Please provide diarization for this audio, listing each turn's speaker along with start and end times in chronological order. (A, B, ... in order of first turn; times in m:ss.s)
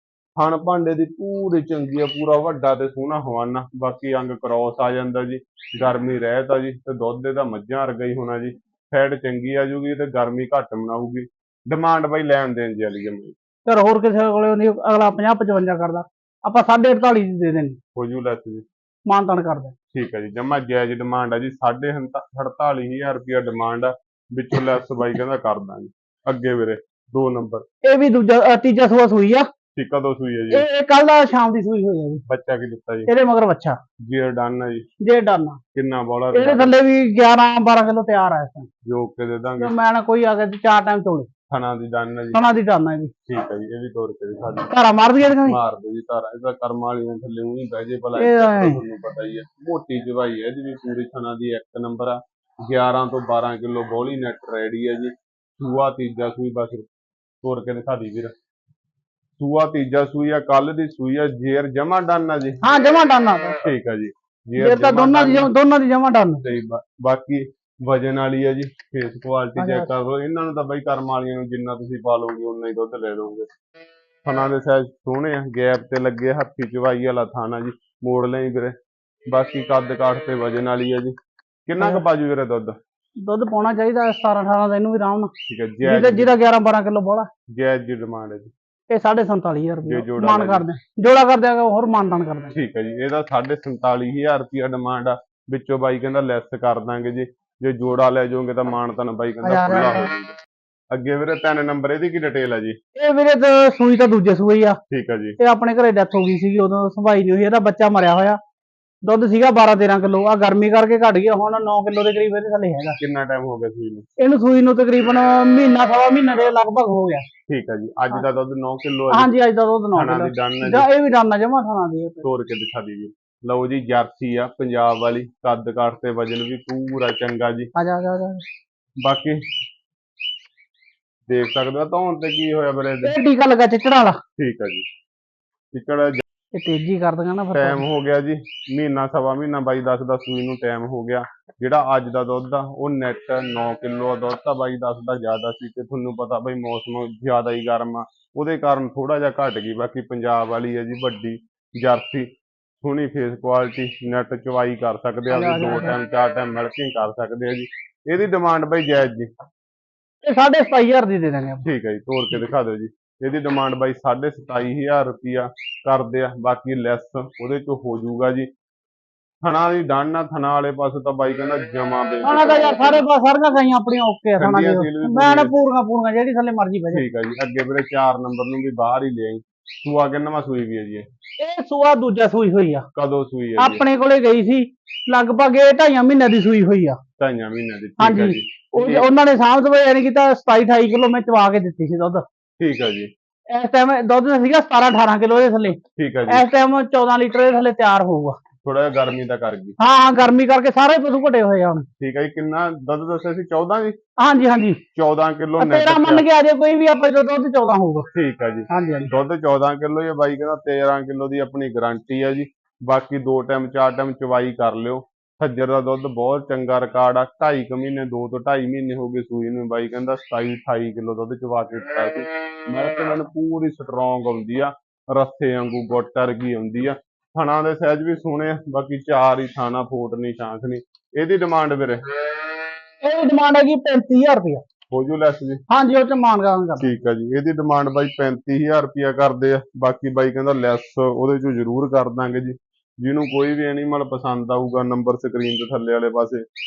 0:00.4-0:13.4 A
0:13.7-0:17.8 B
0:18.0-0:18.6 A
0:19.1-0:19.7 B
0:19.9-0:27.7 A
0:27.8-0:29.5 B
0:29.8-0:30.7 A
0:30.5-0:32.2 B
0:32.3-0:33.1 A
0:33.1-0:33.8 B
0:34.1-0:34.9 A
0:35.0-0:35.6 B
0:35.7-0:36.7 A
0:36.3-0:38.7 B
0:38.9-0:39.7 A
0:39.6-0:41.3 B
0:41.5-0:42.4 A
0:42.3-0:43.1 B
0:43.3-0:44.7 A
0:44.7-0:45.6 B
0:45.4-0:56.9 A
0:48.2-0:48.8 B
0:57.4-0:58.3 A
0:59.4-1:02.6 A
1:02.6-1:03.6 B
1:03.6-1:05.5 A
1:04.6-1:06.4 B
1:06.4-1:13.5 A
1:09.6-1:09.9 B
1:14.2-1:18.8 A
1:19.3-1:21.2 A
1:21.7-1:22.8 A
1:23.2-1:25.3 B
1:25.5-1:26.4 A
1:25.8-1:27.3 B
1:27.5-1:28.5 A
1:28.9-1:32.5 B
1:29.8-1:30.6 A
1:32.5-1:40.4 A
1:39.4-1:40.0 B
1:40.9-1:42.8 A
1:43.0-1:44.8 B
1:44.9-1:45.4 A
1:45.4-1:48.4 B
1:49.0-1:53.0 B
1:53.0-1:54.1 A
1:54.2-1:57.3 B
1:57.5-1:59.3 A
1:59.1-2:02.3 B
1:59.9-2:00.9 A
2:02.2-2:07.7 A
2:07.8-2:08.4 B
2:09.0-2:09.4 A
2:11.3-2:13.1 A
2:13.0-2:14.2 B
2:14.4-2:14.9 A
2:15.7-2:16.2 A
2:16.5-2:17.8 B
2:17.5-2:32.3 A
2:32.8-2:39.3 A
2:35.3-2:36.0 B
2:40.2-2:41.6 B
2:41.6-2:48.5 A
2:49.4-2:53.0 A
2:52.2-2:57.0 B
2:54.4-2:55.5 A
2:56.9-3:01.1 A
3:01.4-3:02.9 B
3:03.0-3:03.8 A
3:03.6-3:07.0 B
3:07.2-3:09.0 A
3:08.0-3:12.2 B
3:12.6-3:13.1 A
3:13.5-3:18.4 B
3:16.0-3:16.5 A
3:18.6-3:19.8 A
3:19.8-3:21.9 B
3:22.0-3:24.0 A
3:24.2-3:24.8 B
3:25.0-3:26.2 A
3:25.6-3:28.1 B
3:28.1-3:52.0 A
3:28.7-3:29.1 B
3:53.0-3:54.6 B
3:54.9-3:55.6 A
3:55.7-3:56.9 B
3:56.8-4:06.4 A